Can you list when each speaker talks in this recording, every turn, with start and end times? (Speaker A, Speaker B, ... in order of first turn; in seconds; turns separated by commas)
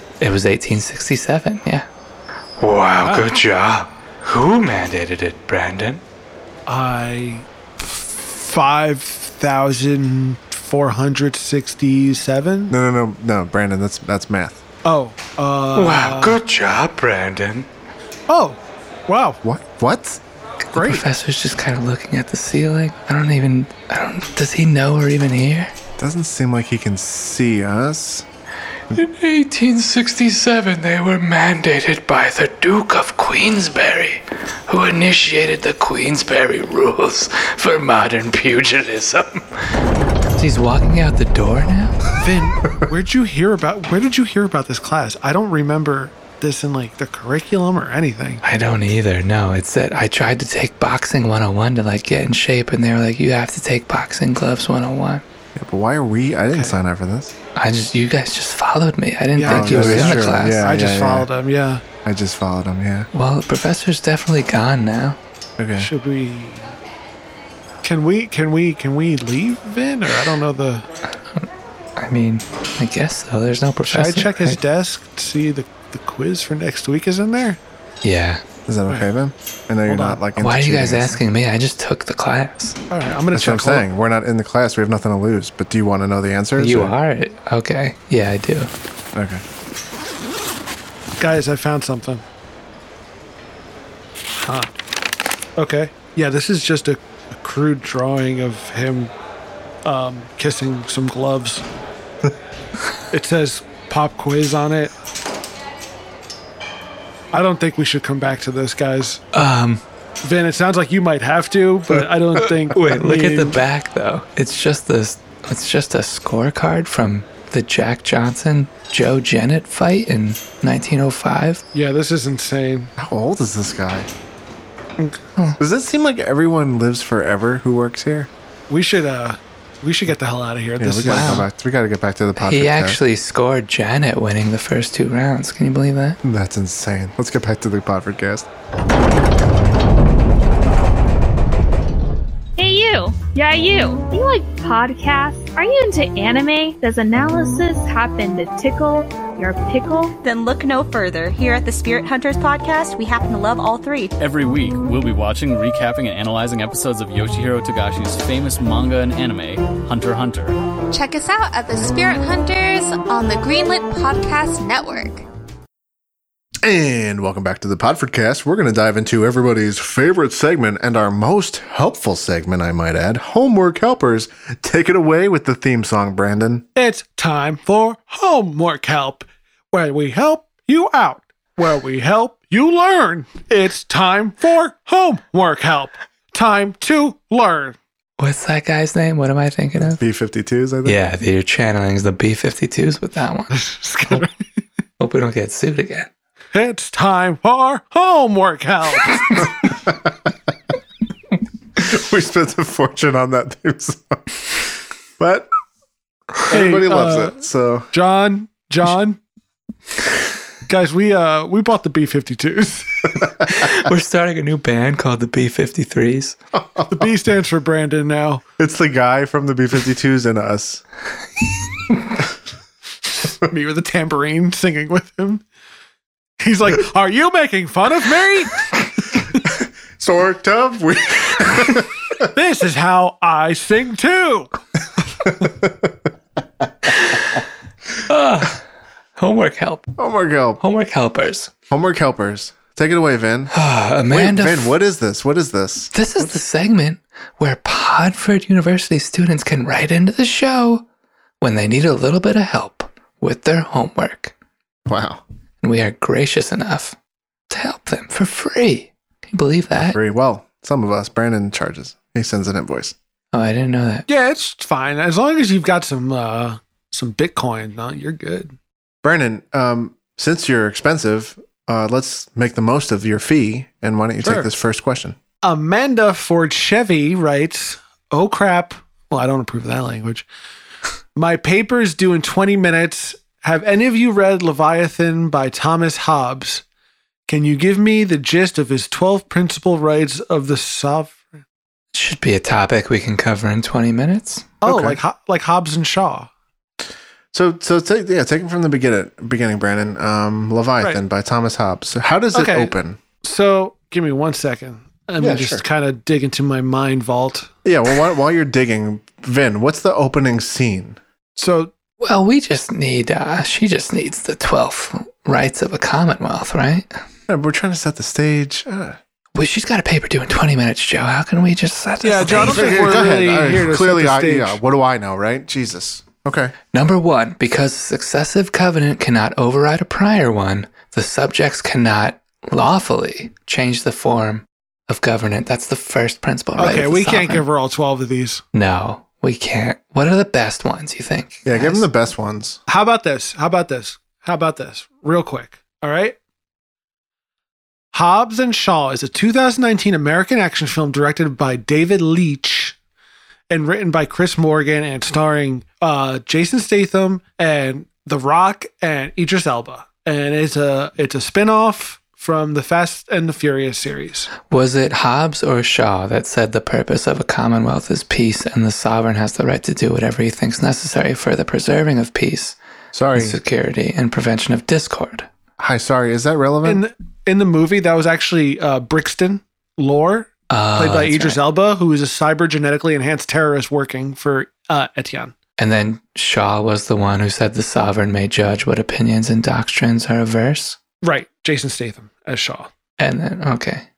Speaker A: 0.2-1.9, Speaker A: 2.6-6.0, Speaker B: 3.0-3.3, Speaker B: 6.7-12.8, Speaker C: 12.7-14.6, Speaker B: 14.8-16.4, Speaker A: 15.8-17.7, Speaker B: 18.3-19.4, Speaker C: 19.4-20.2, Speaker A: 20.7-25.7, Speaker B: 20.8-21.0, Speaker C: 26.0-28.3, Speaker A: 28.9-39.6, Speaker A: 40.4-42.0, Speaker B: 42.2-48.4, Speaker A: 48.4-55.2, Speaker C: 55.6-57.4, Speaker B: 56.5-56.8, Speaker A: 57.6-60.7, Speaker B: 59.4-61.8, Speaker C: 59.4-61.3, Speaker C: 62.0-63.1, Speaker A: 63.1-65.2, Speaker C: 65.6-65.9, Speaker B: 65.8-66.7, Speaker B: 67.8-70.8, Speaker A: 71.3-74.6, Speaker B: 73.9-77.6, Speaker A: 78.0-78.4, Speaker C: 78.7-81.2, Speaker B: 79.9-80.2, Speaker A: 80.4-82.8, Speaker B: 82.9-83.9, Speaker C: 83.3-86.9, Speaker A: 86.6-88.7, Speaker C: 89.1-89.4, Speaker B: 91.2-92.2, Speaker B: 94.4-94.7, Speaker B: 95.6-99.1, Speaker B: 99.8-101.7, Speaker B: 103.1-104.9, Speaker B: 107.3-109.2, Speaker A: 109.3-109.8, Speaker B: 110.2-113.6, Speaker A: 112.7-121.6, Speaker B: 121.7-122.9, Speaker C: 123.0-124.1, Speaker C: 125.6-128.3, Speaker B: 128.7-131.4, Speaker C: 130.8-133.0, Speaker A: 131.1-131.5, Speaker A: 132.4-136.2, Speaker C: 136.2-138.5, Speaker D: 142.6-150.2, Speaker E: 150.2-154.1, Speaker F: 154.2-160.6, Speaker G: 160.9-165.2, Speaker C: 166.6-176.7, Speaker B: 176.8-187.8, Speaker A: 188.2-190.0, Speaker C: 189.8-191.0, Speaker A: 190.8-193.6, Speaker B: 193.5-194.3, Speaker A: 195.0-196.1, Speaker B: 196.5-199.5, Speaker C: 201.8-204.7, Speaker C: 205.2-205.5, Speaker C: 206.5-207.9, Speaker B: 206.5-207.4, Speaker B: 207.9-209.2, Speaker B: 210.7-213.1, Speaker A: 213.4-216.4, Speaker C: 216.6-217.1, Speaker B: 216.9-218.4, Speaker C: 218.6-220.8, Speaker B: 223.2-225.4, Speaker B: 226.4-228.7, Speaker C: 229.6-232.3, Speaker B: 232.2-234.5, Speaker C: 235.2-235.9, Speaker A: 236.9-237.4, Speaker A: 238.1-238.6, Speaker A: 239.2-239.9, Speaker C: 240.0-240.6, Speaker A: 240.6-241.5, Speaker C: 241.7-243.6, Speaker A: 243.5-244.8, Speaker C: 244.1-245.9, Speaker A: 245.9-250.8, Speaker A: 251.4-254.3, Speaker C: 254.9-255.2, Speaker A: 255.6-257.0, Speaker A: 257.5-260.0, Speaker C: 259.8-263.0, Speaker A: 263.3-264.1, Speaker B: 264.1-268.5, Speaker C: 269.0-275.2, Speaker B: 274.2-274.5, Speaker B: 275.4-280.3, Speaker B: 281.2-286.6, Speaker B: 287.3-291.4, Speaker A: 291.9-294.6, Speaker B: 294.6-296.3, Speaker C: 294.6-295.0, Speaker C: 297.3-303.0, Speaker B: 302.3-307.5, Speaker C: 305.2-305.6, Speaker C: 307.6-311.0, Speaker B: 311.4-311.7, Speaker A: 312.0-316.9, Speaker C: 317.3-319.0, Speaker A: 319.4-322.9, Speaker B: 322.0-324.6, Speaker C: 322.3-326.6, Speaker A: 326.7-337.4, Speaker B: 336.6-338.4, Speaker A: 338.5-341.8, Speaker C: 341.4-342.6, Speaker B: 342.7-346.2, Speaker B: 347.9-352.8, Speaker B: 353.5-364.3, Speaker A: 364.5-372.6, Speaker C: 372.9-373.4, Speaker A: 373.1-375.3, Speaker C: 375.6-376.8, Speaker B: 376.6-385.3, Speaker A: 380.5-381.4, Speaker A: 385.6-390.8, Speaker B: 391.0-392.7, Speaker A: 393.0-393.9